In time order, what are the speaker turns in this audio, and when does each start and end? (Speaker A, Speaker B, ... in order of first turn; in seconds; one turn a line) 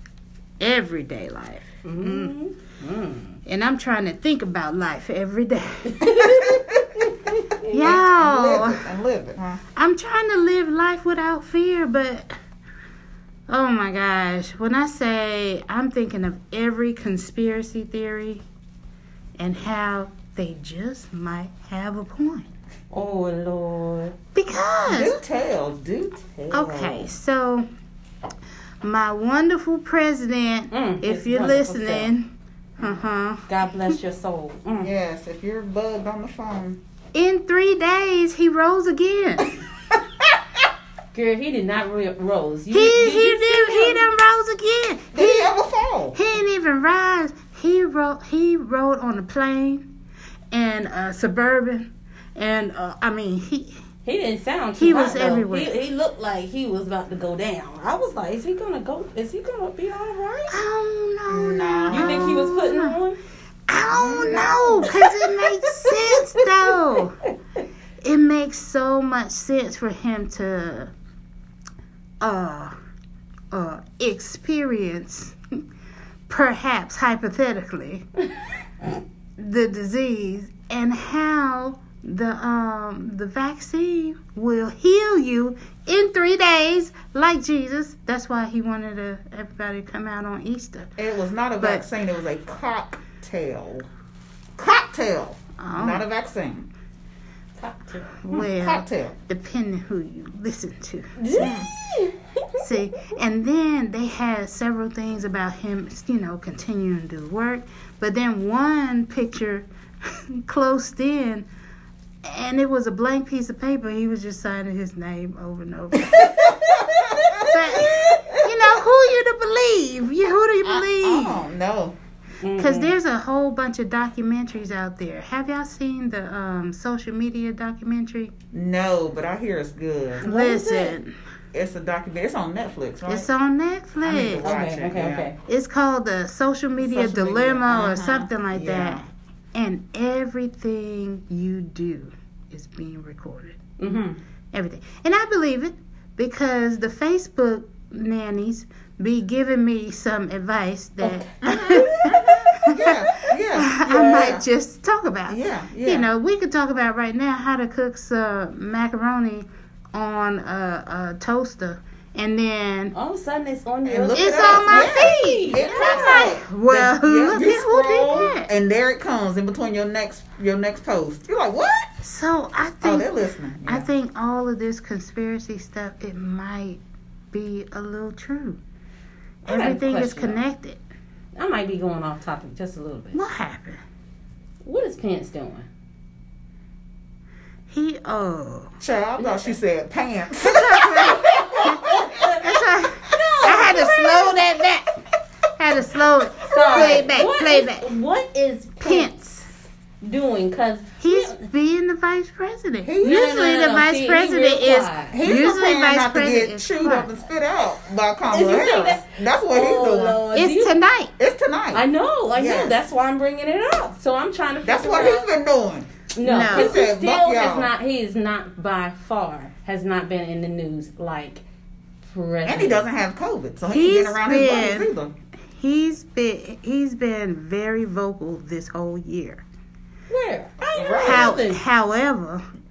Speaker A: 0.6-2.4
Speaker B: 1.8-3.4
Speaker A: 3.5-6.7
Speaker B: 5.9-8.0
Speaker C: 6.4-7.0
Speaker A: 7.7-8.8
Speaker C: 7.8-9.6
Speaker A: 9.8-12.3
Speaker A: 13.5-18.4
Speaker A: 19.4-22.5
Speaker B: 22.9-24.1
Speaker A: 24.4-25.2
Speaker C: 24.9-27.1
Speaker A: 26.5-27.6
Speaker A: 28.8-34.0
Speaker B: 30.7-32.1
Speaker B: 33.5-34.9
Speaker C: 34.8-36.8
Speaker A: 37.1-39.6
Speaker B: 41.1-44.1
Speaker A: 42.7-45.6
Speaker C: 45.1-46.2
Speaker A: 46.1-49.9
Speaker A: 50.5-53.8
Speaker B: 54.0-60.6
Speaker A: 54.8-55.8
Speaker A: 60.5-63.0
Speaker C: 61.3-62.4
Speaker B: 61.9-63.2
Speaker A: 63.7-67.2
Speaker C: 63.9-65.0
Speaker B: 64.3-65.1
Speaker B: 65.9-66.5
Speaker A: 68.0-70.9
Speaker A: 72.2-72.7
Speaker A: 73.5-75.4
Speaker A: 76.3-78.1
Speaker A: 79.4-90.9
Speaker C: 91.0-93.9
Speaker A: 91.6-91.8
Speaker C: 94.6-96.7
Speaker A: 95.6-96.0
Speaker B: 97.6-98.2
Speaker A: 98.2-101.6
Speaker C: 98.3-99.2
Speaker B: 101.2-102.7
Speaker C: 101.4-101.7
Speaker A: 102.6-109.7
Speaker A: 110.3-111.5
Speaker A: 112.2-116.7
Speaker C: 116.1-118.3
Speaker A: 117.4-121.4
Speaker C: 120.6-122.0
Speaker B: 122.4-122.9
Speaker A: 122.6-128.3
Speaker C: 128.5-130.2
Speaker A: 130.2-131.1
Speaker B: 130.2-131.0
Speaker C: 131.5-133.3
Speaker A: 133.1-134.5
Speaker C: 134.0-135.3
Speaker B: 134.4-135.4
Speaker A: 135.4-143.6
Speaker C: 136.8-139.0
Speaker B: 143.8-144.2
Speaker A: 144.5-152.1
Speaker C: 151.0-154.4
Speaker A: 152.7-162.9
Speaker C: 155.3-156.1
Speaker B: 162.9-166.3
Speaker C: 163.8-171.9
Speaker A: 164.1-168.5
Speaker A: 172.0-173.1
Speaker C: 172.8-173.9
Speaker A: 173.7-176.8
Speaker A: 177.3-178.6
Speaker A: 179.5-180.8
Speaker B: 179.5-180.4
Speaker B: 181.4-183.2
Speaker A: 183.2-183.8
Speaker B: 184.6-185.7
Speaker A: 187.7-188.8
Speaker C: 188.8-192.3
Speaker B: 189.2-189.5
Speaker A: 190.8-194.9
Speaker B: 192.1-192.5
Speaker B: 193.0-194.3
Speaker A: 195.6-197.9
Speaker B: 196.5-199.1
Speaker C: 196.7-197.1
Speaker A: 198.8-199.5
Speaker B: 200.0-201.4
Speaker A: 201.0-207.1
Speaker C: 202.8-203.4
Speaker B: 203.0-205.2
Speaker C: 205.1-210.2
Speaker B: 208.3-210.8
Speaker A: 210.3-211.1
Speaker C: 211.2-211.8
Speaker B: 211.7-215.2
Speaker C: 212.3-212.8
Speaker C: 214.6-215.9
Speaker B: 216.2-221.4
Speaker A: 216.2-216.8
Speaker C: 216.5-217.7
Speaker B: 222.1-222.9
Speaker C: 222.4-225.1
Speaker A: 223.7-224.9
Speaker A: 225.5-229.4
Speaker B: 230.1-231.6
Speaker C: 230.6-231.4
Speaker A: 231.0-232.4